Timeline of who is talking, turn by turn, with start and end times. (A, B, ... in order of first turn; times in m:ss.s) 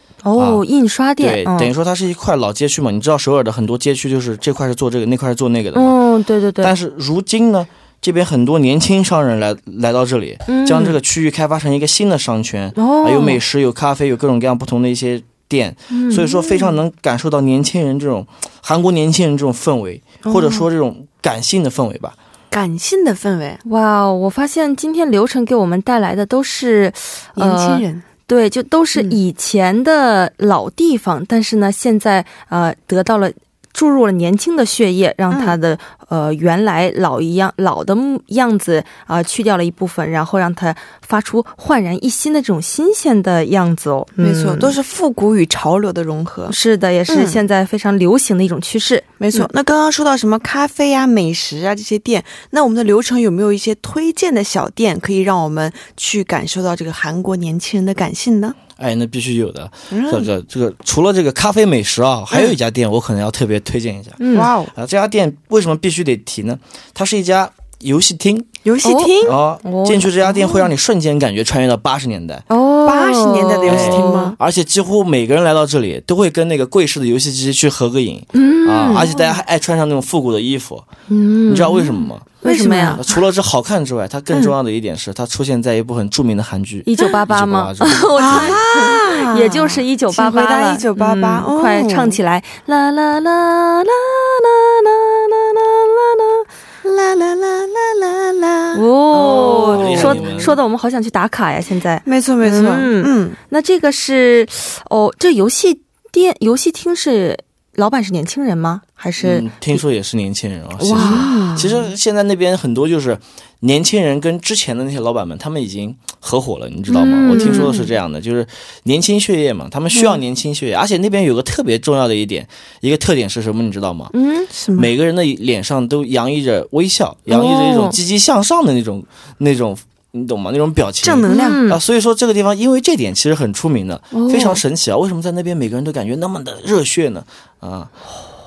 0:00.2-0:01.7 A
0:00.4-0:00.6 B
0:01.2-0:05.9 B
0:05.7-0:06.7 A
0:06.6-0:22.2 B
0:10.5-0:11.0 A
0:12.8-0:13.4 A
0:15.9-0:16.7 A
0:20.2-0:20.6 A
0:22.5-0:23.6 C
0:23.6-0:44.8 A
0:27.4-0:28.0 C
0:35.3-0:35.6 C
0:44.2-0:46.6 C
0:46.5-0:49.5 A
0:47.1-0:47.4 C
0:49.2-0:58.6 C
0:58.8-1:04.2 B
0:59.9-1:00.3 C
1:04.2-1:04.5 A
1:04.3-1:04.7 C
1:04.7-1:08.5 B
1:08.6-1:09.4 C
1:08.8-1:10.6 A
1:09.2-1:12.4 B
1:12.5-1:14.3 A
1:12.8-1:14.4 C
1:13.7-1:20.8 B
1:18.3-1:19.1 A
1:21.1-1:23.0 A
1:21.5-1:22.4 B
1:22.4-1:23.2 C
1:23.0-1:28.5 B
1:26.8-1:36.4 A
1:28.2-1:32.2 C
1:36.8-1:40.6 C
1:38.7-1:49.8 A
1:39.2-1:40.6 B
1:42.0-1:43.4 C
1:49.2-2:04.1 B
1:50.8-1:51.4 A
1:51.0-1:51.9 C
1:56.9-1:57.8 A
1:57.3-1:57.9 C
2:04.1-2:04.5 A
2:04.5-2:04.9 C
2:04.7-2:17.9 B
2:07.3-2:08.0 A
2:11.0-2:11.6 C
2:11.3-2:11.8 A
2:14.1-2:14.6 A